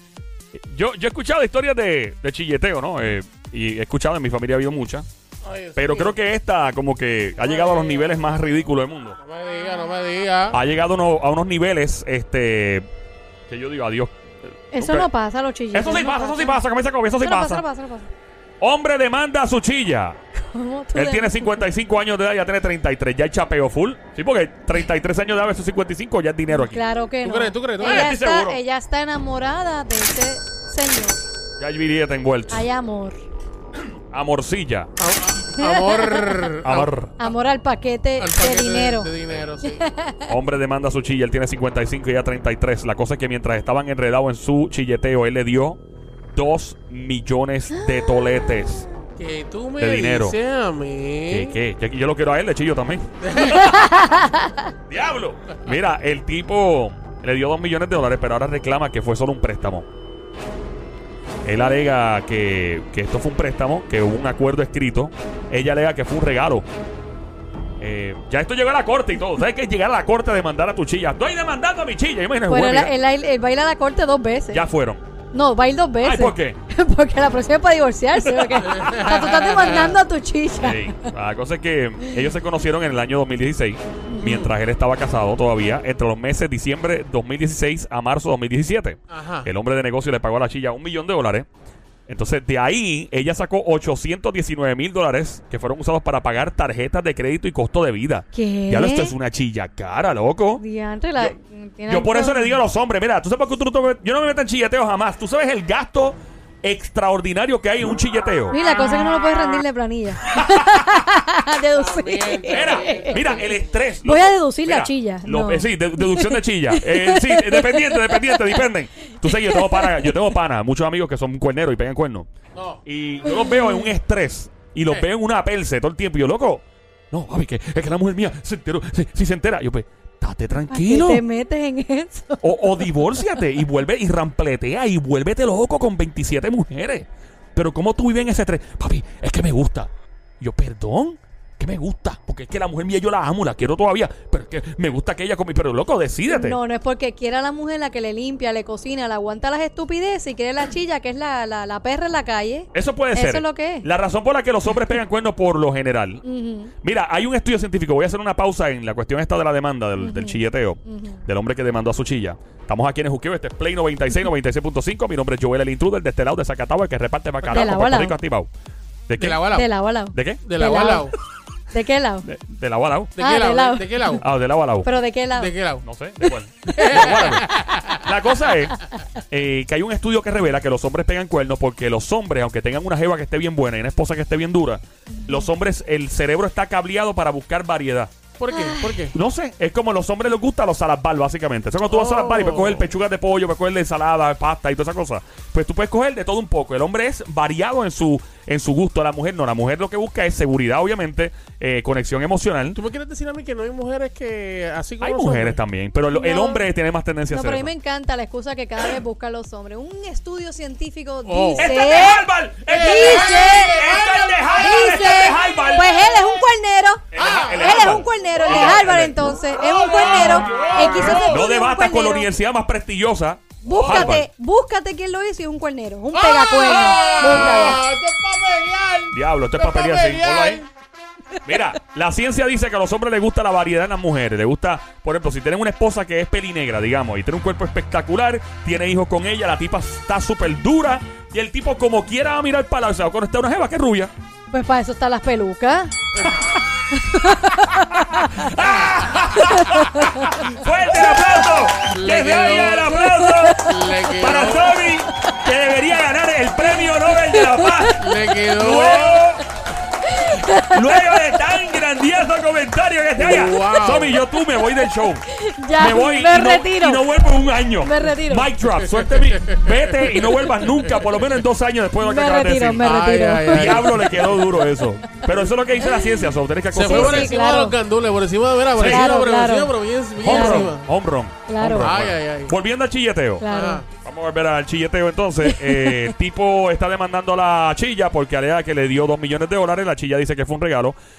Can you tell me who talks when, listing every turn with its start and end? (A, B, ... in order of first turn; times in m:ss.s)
0:00.6-0:05.1 A
0:05.4-0:06.2 B
0:05.8-0:09.2 A
0:07.4-0:08.2 B
0:09.2-0:10.6 B
0:10.5-0:12.9 A
0:13.5-0:14.2 A
0:14.7-0:16.6 C
0:14.8-0:15.1 A
0:15.7-0:17.6 A
0:17.2-0:18.1 C
0:18.6-0:20.2 A
0:20.5-0:21.7 C
0:20.9-0:26.8 A
0:26.5-0:31.2 C
0:27.2-0:28.1 B
0:27.8-0:28.6 A
0:31.6-0:32.7 A
0:32.5-0:33.2 C
0:34.1-0:34.9 A
0:35.0-0:36.9 B
0:35.5-0:36.4 C
0:36.6-0:37.2 A
0:37.2-0:39.1 C
0:38.2-0:39.9 B
0:39.6-0:40.3 C
0:40.3-0:45.8 A
0:46.4-0:48.9 A
0:47.8-0:48.9 C
0:49.2-0:51.6 B
0:49.8-0:50.4 A
0:51.3-0:53.8 A
0:53.2-0:53.6 B
0:53.5-0:54.5 C
0:54.9-0:59.9 A
1:01.4-1:06.6 A
1:07.8-1:12.9 A
1:12.5-1:14.6 C
1:14.5-1:15.0 A
1:15.3-1:21.1 C
1:16.0-1:16.6 A
1:18.2-1:18.9 A
1:18.7-1:19.9 B
1:20.6-1:31.5 A
1:24.1-1:24.5 C
1:29.1-1:29.5 B
1:32.1-1:40.6 A
1:38.3-1:39.2 C
1:40.6-1:42.6 C
1:41.9-1:48.6 A
1:48.5-1:53.3 C
1:50.3-1:50.6 A
1:51.8-1:53.6 B
1:52.5-2:02.3 A
1:54.0-2:00.1 C
2:02.6-2:02.8 B
2:02.9-2:11.2 A
2:03.2-2:03.9 C
2:10.7-2:13.2 C
2:12.4-2:26.6 A
2:26.3-2:33.9 C
2:32.7-2:36.2 A
2:36.2-2:36.7 C
2:36.8-2:48.5 A
2:40.0-2:41.2 C
2:47.5-2:48.2 C
2:49.1-2:49.5 A
2:49.2-2:49.7 B
2:49.5-2:51.1 C
2:50.1-2:50.4 A
2:50.4-2:51.2 B
2:51.7-2:52.3 C
2:52.2-2:53.2 A
2:53.2-2:54.2 B
2:53.2-2:54.2 C
2:54.2-2:54.9 A
2:54.8-2:55.6 C
2:55.3-2:55.8 B
2:55.8-3:08.1 A
2:56.7-2:58.0 B
3:05.1-3:05.5 C
3:08.4-3:09.2 B
3:08.5-3:09.1 C
3:09.1-3:22.8 A
3:11.9-3:12.9 B
3:22.8-3:25.6 B
3:25.0-3:27.7 A
3:26.1-3:26.7 C
3:27.3-3:33.9 C
3:31.3-3:31.8 B
3:31.6-3:36.1 A
3:32.7-3:34.6 B
3:34.6-3:42.3 C
3:37.1-3:39.2 A
3:37.2-3:38.9 B
3:39.4-3:41.3 B
3:40.9-3:44.3 A
3:43.6-3:47.8 C
3:43.6-3:44.2 B
3:46.1-3:50.7 B
3:49.1-3:50.6 A
3:51.5-4:04.1 A
4:04.5-4:05.9 C
4:06.9-4:08.6 C
4:08.2-4:19.4 A
4:09.4-4:10.4 C
4:11.9-4:14.8 B
4:13.2-4:13.7 C
4:17.2-4:17.9 C
4:18.0-4:19.3 B
4:20.0-4:21.3 C
4:20.6-4:32.9 A
4:23.2-4:24.2 B
4:25.3-4:27.1 C
4:27.7-4:28.5 C
4:28.8-4:30.9 B
4:32.0-4:34.0 C
4:32.8-4:34.5 B
4:33.5-4:37.4 A
4:36.7-4:40.9 B
4:36.8-4:37.8 C
4:38.8-4:39.1 A
4:38.8-4:40.7 C
4:40.2-4:43.4 A
4:41.5-4:41.9 C
4:41.7-4:42.5 B
4:43.4-4:43.8 C
4:43.5-4:43.9 B
4:44.0-4:51.0 A
4:45.4-4:46.1 C